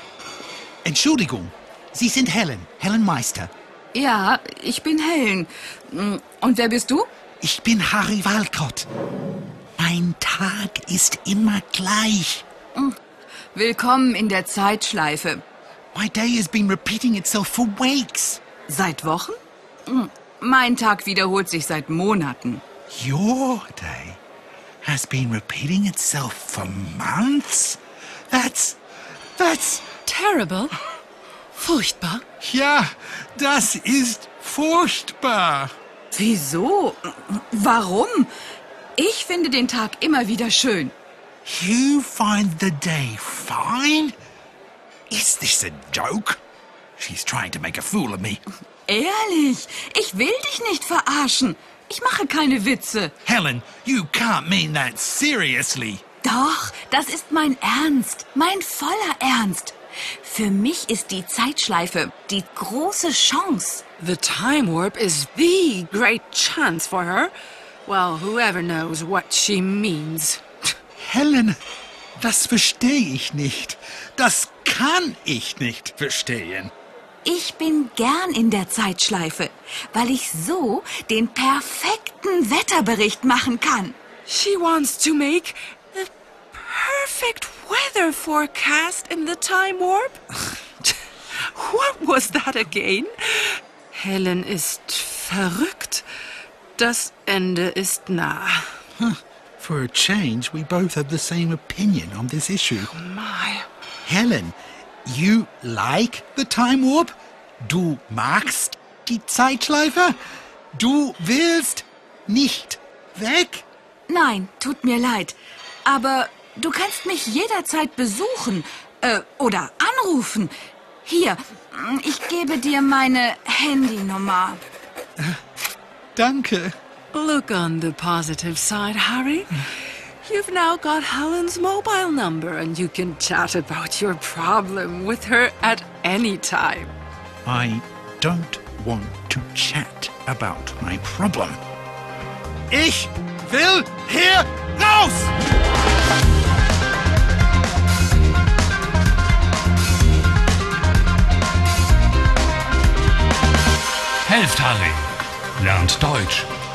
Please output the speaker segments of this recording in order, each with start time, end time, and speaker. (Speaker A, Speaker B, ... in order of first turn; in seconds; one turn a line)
Speaker A: 0.8-3.5
Speaker B: 3.9-7.1
Speaker A: 7.4-8.9
Speaker A: 9.8-12.4
Speaker B: 13.5-15.4
Speaker A: 15.9-18.4
Speaker B: 18.7-22.6
Speaker A: 22.9-24.2
Speaker A: 24.8-27.8
Speaker A: 28.3-28.8
Speaker A: 29.4-29.9
Speaker C: 30.1-30.8
Speaker C: 31.6-32.2
Speaker A: 32.4-35.7
Speaker B: 36.1-38.3
Speaker B: 39.0-40.9
Speaker A: 41.4-44.1
Speaker A: 45.1-46.4
Speaker A: 47.0-48.4
Speaker B: 48.9-53.1
Speaker A: 53.2-56.0
Speaker B: 56.2-63.8
Speaker C: 64.0-67.3
Speaker C: 67.8-70.4
Speaker A: 71.0-71.6
Speaker A: 72.2-76.7
Speaker B: 77.2-84.0
Speaker C: 84.2-90.2
Speaker C: 90.8-96.0
Speaker C: 96.8-98.7
Speaker A: 99.0-102.9
Speaker C: 102.8-103.7
Speaker A: 104.0-110.2
Speaker A: 110.8-113.7
Speaker B: 114.1-120.5
Speaker B: 121.0-124.6
Speaker A: 126.2-126.7
Speaker C: 127.1-129.7
Speaker C: 130.2-136.9
Speaker A: 137.4-141.6
Speaker A: 142.7-145.3
Speaker D: 154.2-156.5